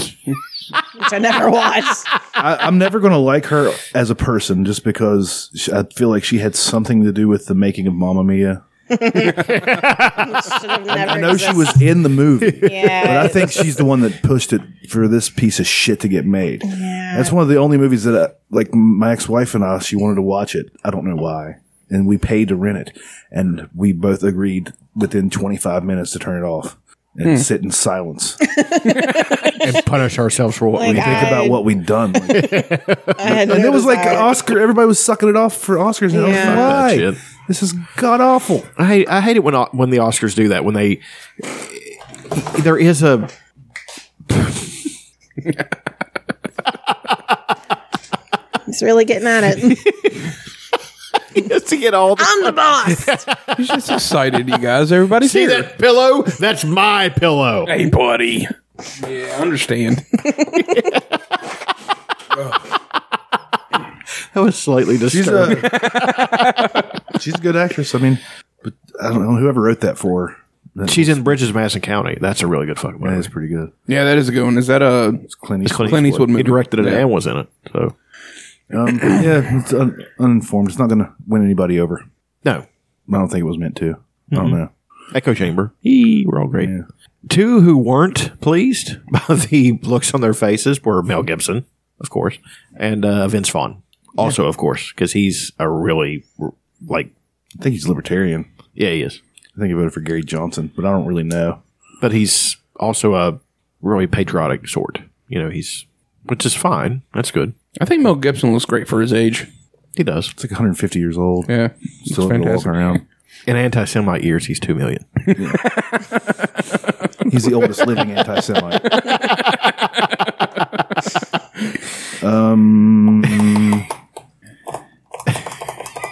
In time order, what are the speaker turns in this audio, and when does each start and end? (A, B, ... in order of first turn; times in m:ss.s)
0:00.9-0:02.1 A
0:02.4-0:08.6 B
0:09.1-0:11.8 A
0:09.1-0:10.6 C
0:10.9-0:28.4 B
0:12.4-0:13.6 C
0:12.6-0:13.7 A
0:16.6-0:17.3 A
0:28.5-0:29.7 A
0:29.6-0:31.5 C
0:30.7-0:31.8 A
0:30.8-0:32.6 B
0:32.3-0:33.7 C
0:33.2-0:34.4 A
0:33.3-0:38.7 B
0:36.1-0:36.7 A
0:36.3-0:37.2 C
0:38.8-0:43.3 C
0:48.7-0:49.8 A
0:49.6-0:50.2 C
0:51.3-0:53.5 C
0:52.2-0:53.2 A
0:53.6-0:55.7 D
0:55.2-0:57.7 C
0:57.6-1:00.2 D
1:00.6-1:01.0 C
1:04.3-1:06.5 C
1:05.1-1:05.7 B
1:05.8-1:06.6 D
1:07.1-1:11.3 B
1:10.8-1:13.3 C
1:13.0-1:13.7 B
1:13.9-1:17.0 D
1:15.3-1:16.1 B
1:15.6-1:17.9 C
1:18.7-1:22.0 B
1:23.1-1:24.7 B
1:24.3-1:24.6 C
1:25.1-1:26.7 C
1:26.6-1:26.8 B
1:27.3-1:37.1 C
1:37.6-1:38.5 B
1:38.8-1:39.2 C
1:39.6-1:41.6 B
1:42.0-1:47.5 C
1:47.8-1:49.5 D
1:50.0-1:50.3 C
1:50.4-1:51.5 B
1:51.5-1:52.7 D
1:52.0-1:53.0 B
1:53.5-1:55.1 C
1:55.4-1:55.6 B
1:55.8-1:56.2 D
1:57.3-1:58.9 B
1:59.0-1:59.7 D
2:02.2-2:03.8 B